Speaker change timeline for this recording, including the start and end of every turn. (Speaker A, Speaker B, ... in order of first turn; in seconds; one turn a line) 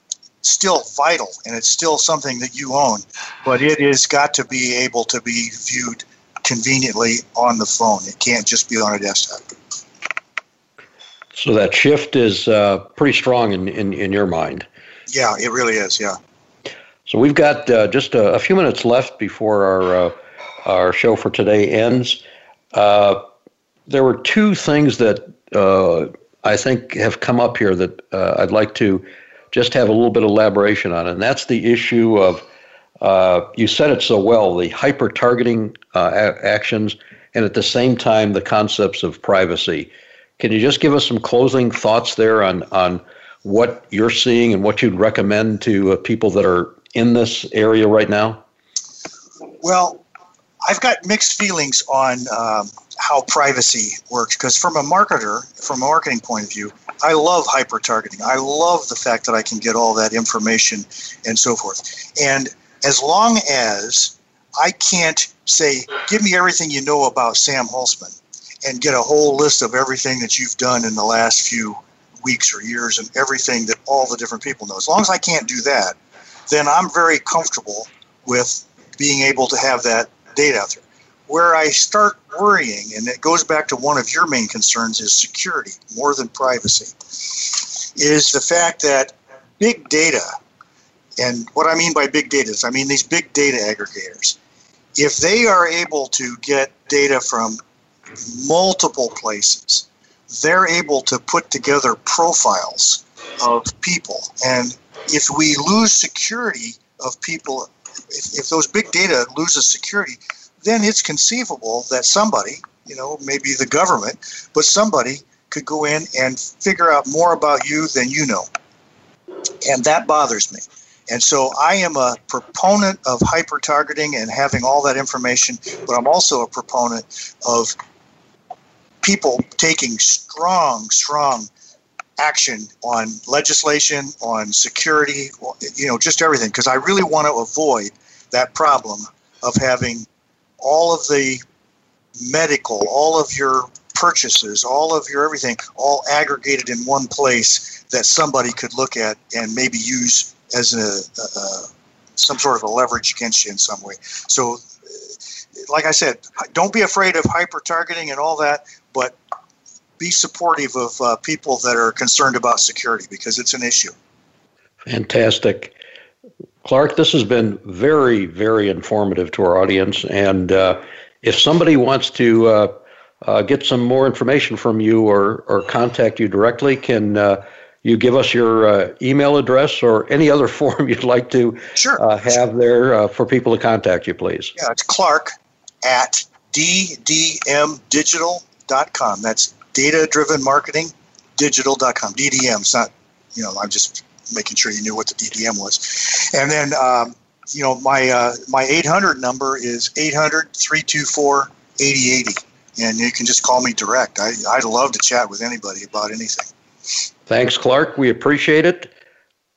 Speaker A: 0.4-9.4
Speaker B: 11.3-14.7
Speaker A: 15.1-16.2
Speaker B: 17.1-20.1
Speaker B: 20.6-22.2
Speaker B: 22.7-23.2
Speaker B: 23.9-32.4
Speaker B: 33.0-48.4
Speaker A: 49.6-50.0
Speaker A: 50.6-76.0
Speaker A: 76.5-90.3
Speaker A: 91.2-94.4
Speaker A: 95.0-97.6
Speaker A: 98.2-118.5
Speaker A: 119.6-127.8
Speaker A: 129.0-131.5
Speaker A: 132.2-140.1
Speaker A: 140.6-141.4
Speaker A: 142.2-159.2
Speaker A: 160.0-163.9
Speaker B: 164.8-165.7
Speaker B: 166.6-172.7
Speaker B: 173.2-184.5
Speaker A: 181.8-182.0
Speaker A: 184.6-185.3
Speaker A: 185.8-206.5
Speaker B: 207.3-208.9